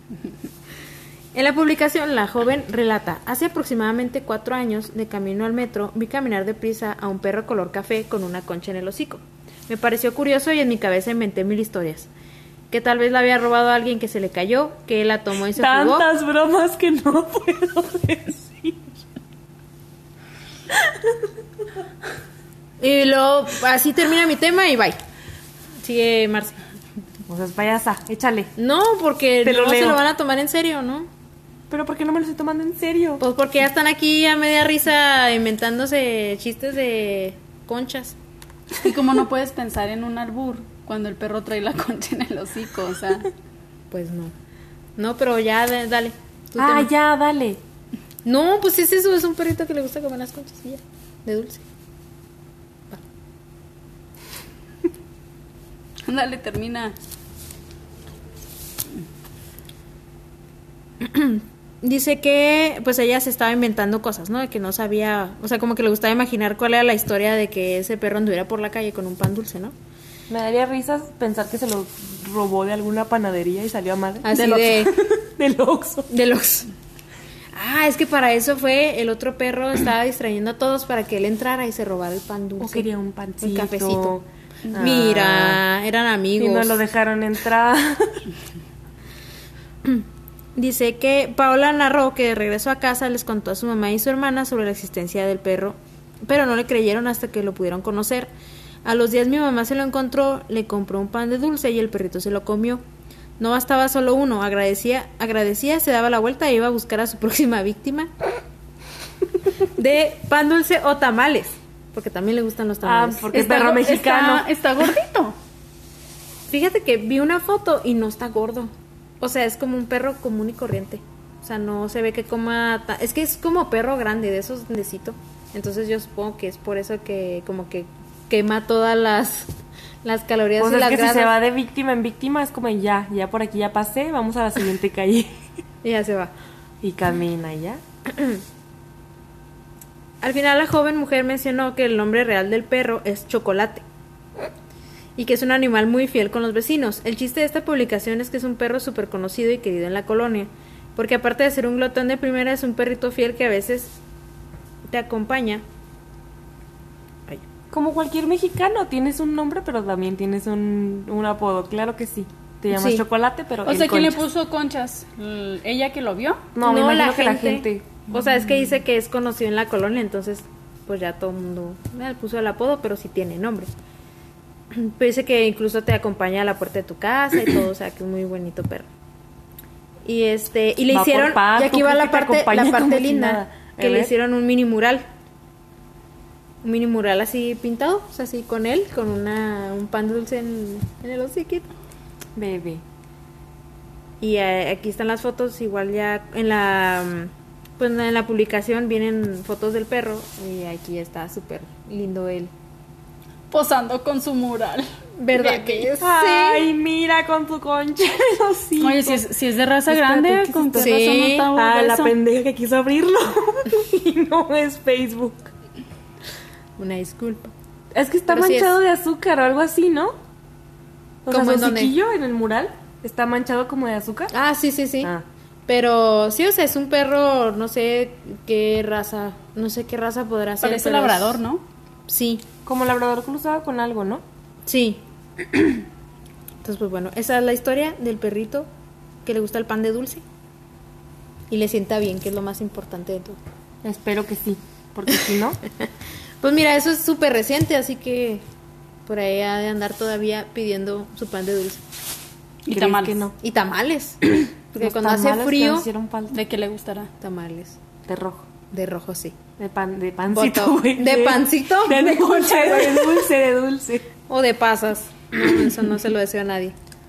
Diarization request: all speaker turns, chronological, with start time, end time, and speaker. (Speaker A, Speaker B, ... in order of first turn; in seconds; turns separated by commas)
Speaker A: 1.3-12.1, Speaker A: 12.7-16.1, Speaker B: 15.6-18.9, Speaker A: 22.8-25.0, Speaker A: 25.8-26.6, Speaker B: 27.3-28.5, Speaker A: 28.6-31.1, Speaker B: 29.4-30.0, Speaker B: 31.7-33.2, Speaker A: 33.2-38.2, Speaker C: 38.8-43.3, Speaker A: 43.9-44.3, Speaker A: 45.0-46.9, Speaker B: 46.6-47.6, Speaker A: 48.2-51.6, Speaker C: 56.0-57.0, Speaker A: 61.0-69.7, Speaker B: 70.3-76.1, Speaker A: 74.2-75.0, Speaker C: 74.3-74.9, Speaker A: 76.1-76.7, Speaker A: 77.5-82.9, Speaker B: 82.6-85.6, Speaker A: 83.4-84.2, Speaker A: 84.8-86.8, Speaker B: 86.4-88.2, Speaker A: 89.8-98.3, Speaker A: 98.8-102.8, Speaker A: 103.4-108.1, Speaker A: 109.8-113.3, Speaker B: 112.8-114.5, Speaker C: 113.3-115.4, Speaker A: 116.5-129.5, Speaker A: 130.0-131.3, Speaker B: 130.6-135.3, Speaker A: 135.8-136.3, Speaker B: 136.8-137.8, Speaker A: 138.1-138.4, Speaker A: 140.2-143.8, Speaker A: 145.2-153.9, Speaker A: 154.9-155.6, Speaker B: 157.7-164.2, Speaker A: 162.7-163.0, Speaker C: 163.7-166.4, Speaker B: 166.6-168.0, Speaker A: 166.6-173.7, Speaker A: 174.7-178.9, Speaker A: 180.1-185.0, Speaker B: 180.9-184.1, Speaker A: 186.6-191.7, Speaker B: 192.4-192.8, Speaker A: 194.2-202.5, Speaker C: 203.5-204.9, Speaker A: 205.2-206.7, Speaker B: 206.0-209.2, Speaker C: 208.8-212.1, Speaker B: 209.9-215.5, Speaker A: 210.7-211.5, Speaker A: 216.8-217.5, Speaker B: 217.9-220.2, Speaker A: 218.3-218.8, Speaker B: 221.3-224.3, Speaker A: 221.3-221.9, Speaker A: 224.3-225.1, Speaker A: 225.7-231.4, Speaker C: 230.6-231.6, Speaker A: 232.1-232.5, Speaker B: 232.7-234.2, Speaker A: 234.7-235.8, Speaker A: 236.6-238.7, Speaker A: 239.2-240.2, Speaker A: 241.5-243.4, Speaker B: 243.8-245.6, Speaker A: 246.4-248.4, Speaker A: 249.1-251.8, Speaker C: 252.7-253.2, Speaker B: 252.7-253.3, Speaker A: 253.4-255.9, Speaker B: 254.8-256.4, Speaker C: 256.3-257.1, Speaker A: 257.2-257.8, Speaker B: 258.1-258.4, Speaker A: 258.7-259.4, Speaker B: 259.6-264.1, Speaker A: 260.3-263.0, Speaker C: 262.4-262.9, Speaker A: 264.3-266.8